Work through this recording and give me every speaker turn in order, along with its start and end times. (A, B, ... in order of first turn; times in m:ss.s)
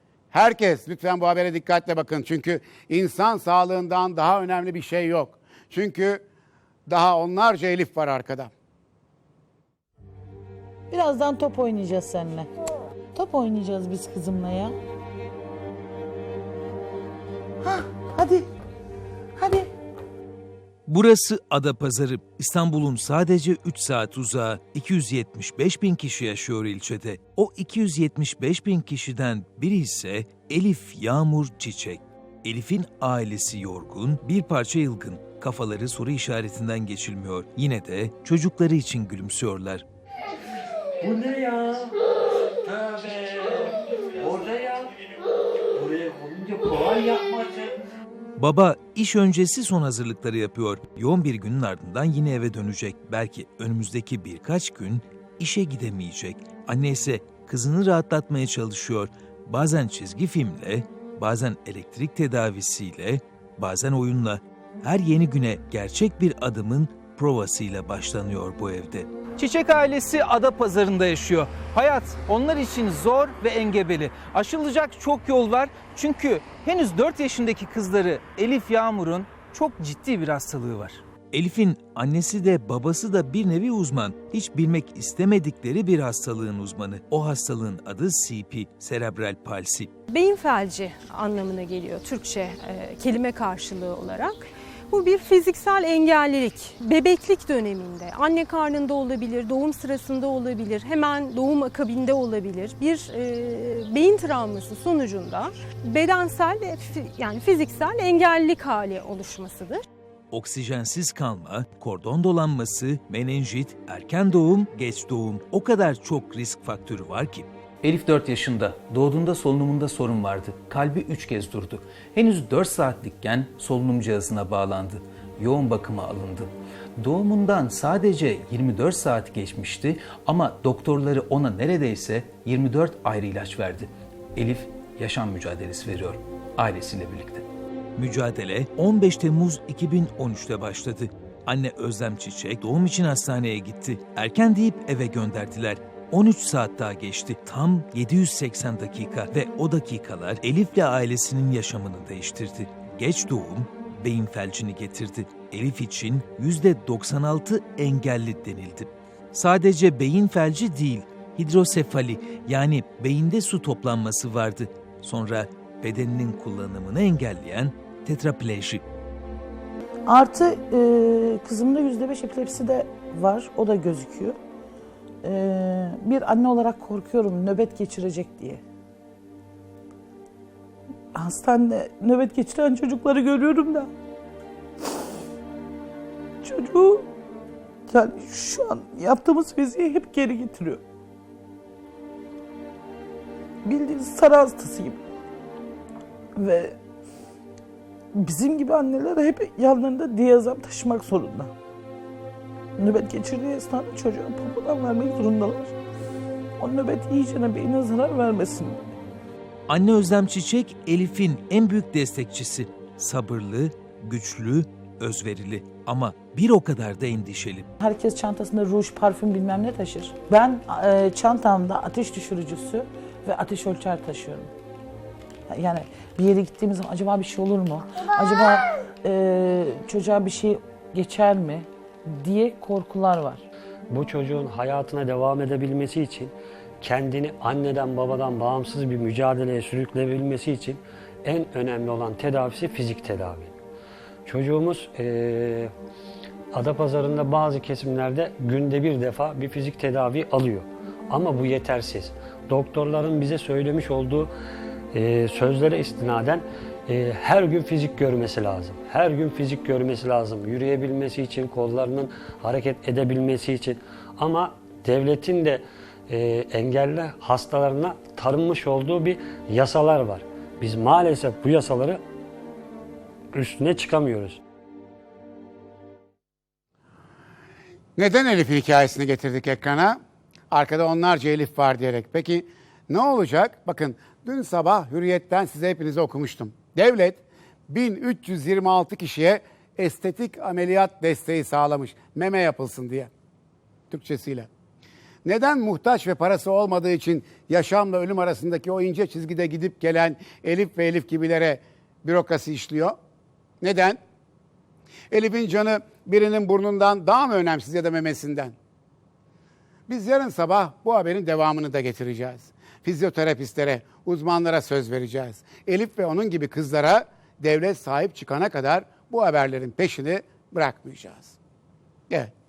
0:00.3-0:06.2 A
0:06.9-0:08.5 A
0:10.9-0:12.5 B
0:13.1-0:14.7 B
0:17.6-0:18.4 B
0:19.4-0:19.7 B
0:20.9-0:39.8 C
0:41.1-0:41.6 D
0:42.9-0:43.4 D
0:44.2-0:44.8 D
0:45.8-0:47.4 D
0:48.4-1:09.1 C
1:09.4-1:21.0 D
1:21.3-1:29.9 C
1:30.1-1:49.8 E
1:50.3-2:06.5 C
1:57.9-2:06.5 D
2:07.0-2:17.3 D
2:07.0-2:17.4 C
2:18.0-2:48.8 C
2:50.1-2:54.4 B
2:55.2-2:58.6 B
3:01.2-3:03.9 B
3:06.4-3:07.1 B
3:07.9-3:10.8 B
3:13.6-3:15.0 B
3:16.4-3:16.8 B
3:18.2-3:21.5 B
3:22.8-3:25.7 B
3:26.6-3:28.8 B
3:29.7-3:37.7 C
3:37.8-3:44.5 B
3:45.5-3:53.5 B
3:53.9-4:03.6 F
4:04.2-4:05.7 F
4:06.5-4:14.3 F
4:14.9-4:32.0 F
4:33.3-4:34.4 F
4:38.0-4:40.0 A
4:40.5-4:53.1 A
4:53.9-4:54.5 A
4:55.2-5:03.0 A
5:03.6-5:04.0 A
5:05.1-5:08.6 A
5:09.9-5:21.4 A